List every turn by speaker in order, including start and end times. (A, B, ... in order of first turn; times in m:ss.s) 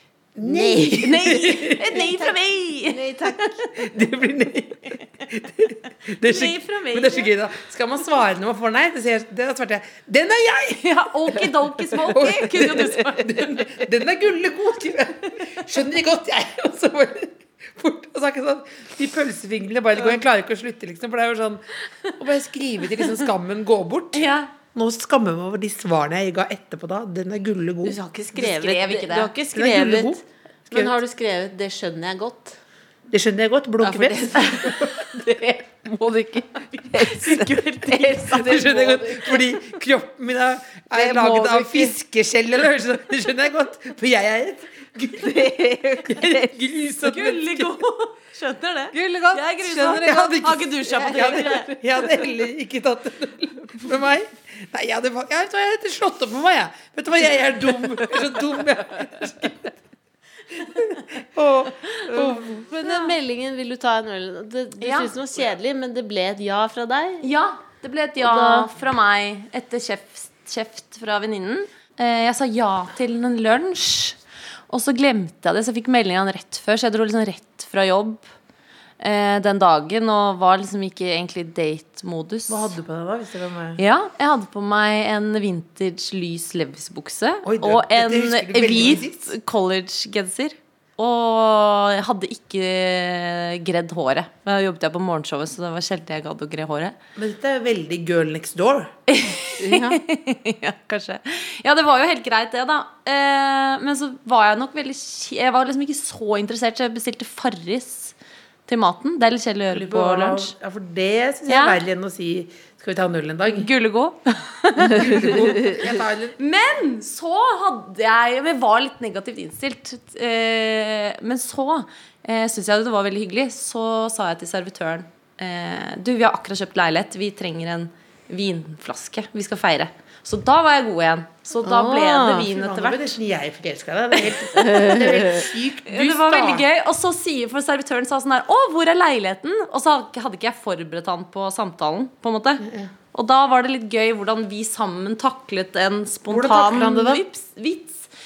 0:00.4-0:02.1 A
0:00.4-0:01.0 B
0:00.9-0:03.0 C
0:01.9-0:03.7 B
0:03.7-0:28.0 A
0:06.2-0:07.3 C
0:10.8-0:13.5 C
0:24.1-0:24.5 C
0:27.8-0:32.6 B
0:28.4-0:29.3 C
0:29.5-0:31.0 A
0:33.1-0:35.1 A
0:33.8-0:39.6 B
0:37.0-0:38.4 C
0:38.2-0:47.8 A
0:41.0-0:41.9 B
0:45.1-0:46.5 B
0:47.0-0:51.7 C
0:48.9-0:59.7 A
0:51.0-0:51.7 B
1:00.5-1:02.6 A
1:02.1-1:07.2 B
1:02.8-1:03.1 C
1:04.8-1:05.1 C
1:07.2-1:14.2 C
1:08.2-1:08.7 B
1:14.7-1:18.2 C
1:19.0-1:22.8 C
1:22.5-1:23.8 A
1:23.8-1:37.0 C
1:27.4-1:29.3 A
1:37.2-1:38.9 A
1:39.1-1:48.2 C
1:39.6-1:40.0 B
1:48.7-1:50.5 C
1:49.7-1:53.7 A
1:51.5-1:51.8 C
1:53.5-1:55.8 C
1:54.8-1:56.4 A
1:56.4-2:13.2 C
2:11.6-2:12.5 B
2:12.1-2:16.6 A
2:14.6-2:28.1 C
2:14.7-2:15.4 B
2:22.6-2:22.9 A
2:26.3-2:27.2 A